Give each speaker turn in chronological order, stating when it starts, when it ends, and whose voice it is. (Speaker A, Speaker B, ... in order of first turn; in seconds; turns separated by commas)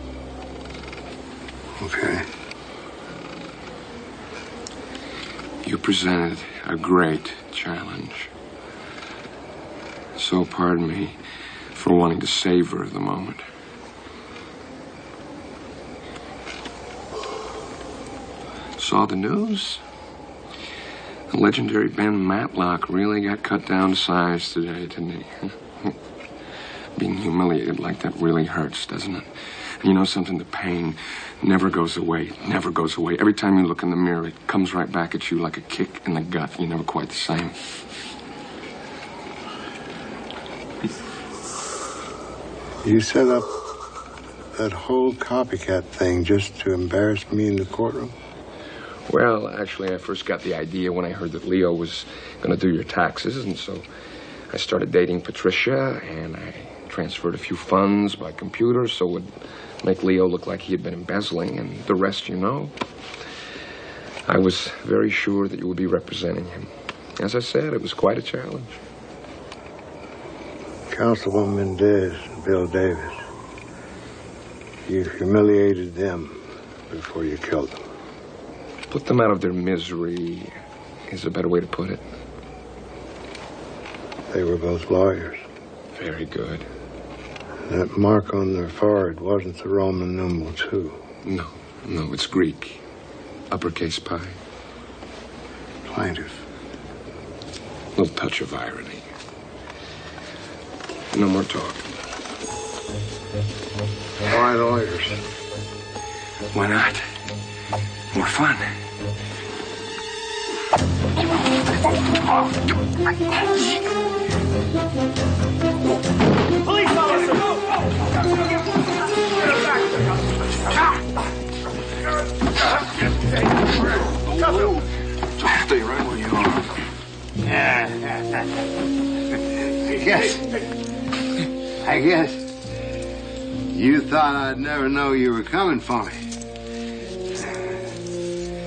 Speaker A: 1.8-2.2, Speaker B: 5.6-8.3, Speaker B: 10.1-11.2, Speaker B: 11.7-13.4, Speaker B: 18.8-19.8, Speaker B: 21.3-25.9, Speaker B: 26.9-37.5, Speaker A: 42.8-43.5, Speaker A: 44.5-48.1, Speaker B: 49.1-53.8, Speaker B: 54.5-62.7, Speaker B: 64.3-68.8, Speaker A: 70.9-73.2, Speaker A: 74.8-77.8, Speaker B: 78.9-80.5, Speaker B: 81.1-82.0, Speaker A: 84.3-85.4, Speaker B: 85.9-86.7, Speaker A: 87.7-91.0, Speaker B: 91.2-92.8, Speaker B: 93.5-94.4, Speaker A: 95.9-96.4, Speaker B: 98.0-99.0, Speaker B: 101.1-101.8, Speaker A: 104.2-105.2, Speaker B: 106.5-107.1, Speaker B: 108.1-108.7, Speaker A: 125.7-126.7, Speaker A: 127.4-128.4, Speaker A: 129.5-130.7, Speaker A: 131.8-132.5, Speaker A: 133.7-136.2